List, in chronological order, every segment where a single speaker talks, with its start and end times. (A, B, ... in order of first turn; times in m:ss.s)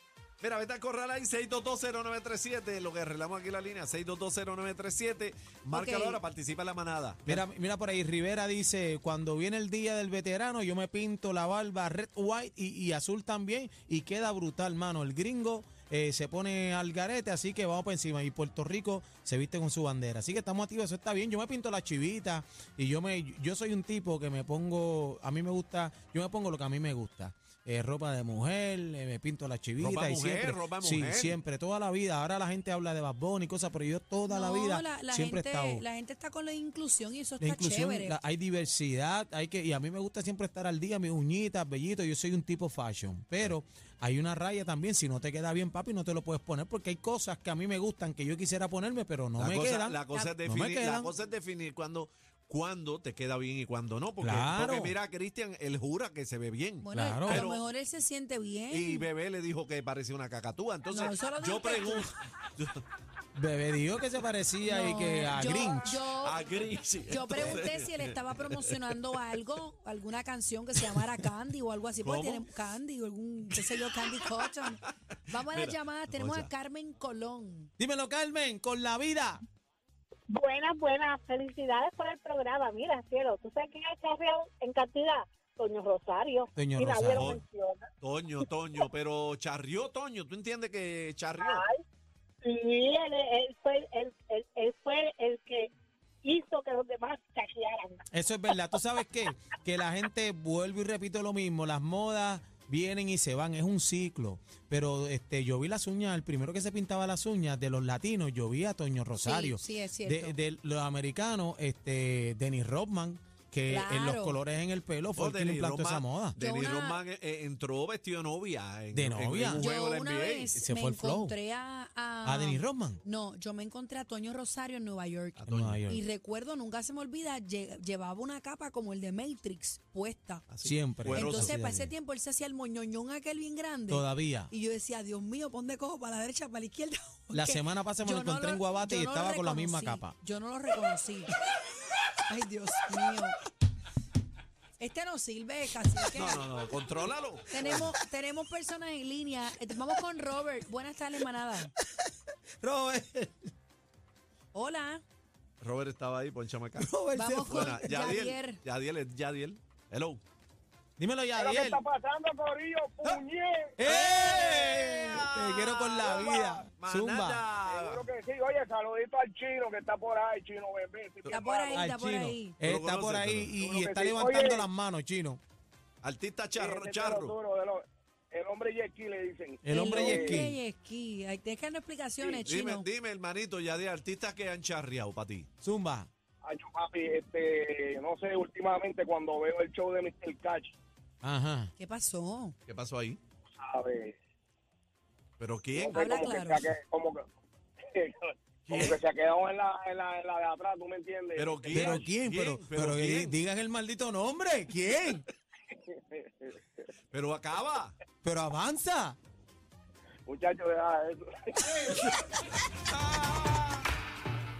0:00.4-0:07.4 A
0:05.8-0:06.2 B
0:07.2-0:35.8 C
0:29.8-0:31.4 A
0:34.3-0:38.2 B
0:37.4-0:51.1 C
0:49.4-0:57.6 A
0:54.2-0:55.0 C
0:56.8-0:59.1 B
0:56.9-0:57.4 C
0:58.7-1:02.8 A
1:00.9-1:02.1 B
1:03.3-1:06.0 C
1:04.6-1:06.4 B
1:06.2-1:08.8 A
1:07.1-1:14.8 B
1:12.0-1:12.4 A
1:13.6-1:14.6 A
1:15.3-1:17.7 B
1:15.3-1:16.5 A
1:17.8-1:19.4 C
1:20.3-1:27.9 D
1:26.6-1:27.4 C
1:28.0-1:31.6 A
1:31.4-1:31.8 D
1:32.4-1:35.7 D
1:36.2-1:38.0 D
1:38.1-1:56.4 C
1:49.2-1:50.4 B
1:53.7-1:54.4 B
1:55.1-2:00.6 A
1:56.3-1:57.0 B
1:58.9-1:59.7 C
1:59.5-2:10.4 B
2:00.6-2:01.4 C
2:02.2-2:03.0 C
2:05.4-2:05.8 A
2:05.4-2:06.0 C
2:10.5-2:11.6 A
2:10.6-2:11.9 C
2:11.0-2:21.3 B
2:13.9-2:14.5 C
2:17.3-2:20.2 C
2:22.3-2:23.4 B
2:24.8-2:26.5 B
2:26.1-2:27.9 A
2:27.5-2:31.7 B
2:27.6-2:27.9 C
2:31.8-2:33.5 C
2:34.5-2:35.0 B
2:35.6-2:36.9 A
2:36.8-2:37.9 C
2:37.1-2:38.6 B
2:37.4-2:40.2 A
2:41.0-2:41.8 C
2:41.4-2:44.1 E
2:43.8-2:47.4 C
2:43.8-2:48.0 A
2:46.0-2:46.6 E
2:47.6-2:51.9 E
2:51.3-2:52.6 B
2:51.7-2:55.4 C
2:52.6-2:53.6 A
2:53.6-2:54.6 E
2:56.0-2:57.4 A
2:56.6-3:00.4 E
2:59.6-3:00.6 C
2:59.7-3:02.9 B
3:02.4-3:05.5 A
3:05.6-3:06.1 C
3:06.4-3:10.7 E
3:11.2-3:11.7 C
3:11.8-3:12.5 B
3:12.7-3:13.2 A
3:13.6-3:14.1 E
3:15.4-3:16.1 A
3:15.7-3:17.2 E
3:15.9-3:16.7 B
3:17.9-3:22.0 E
3:18.6-3:19.0 A
3:21.3-3:23.4 A
3:21.7-3:25.2 C
3:26.0-3:26.6 E
3:27.1-3:27.9 A
3:28.2-3:29.2 C
3:30.2-3:31.9 E
3:32.9-3:33.8 A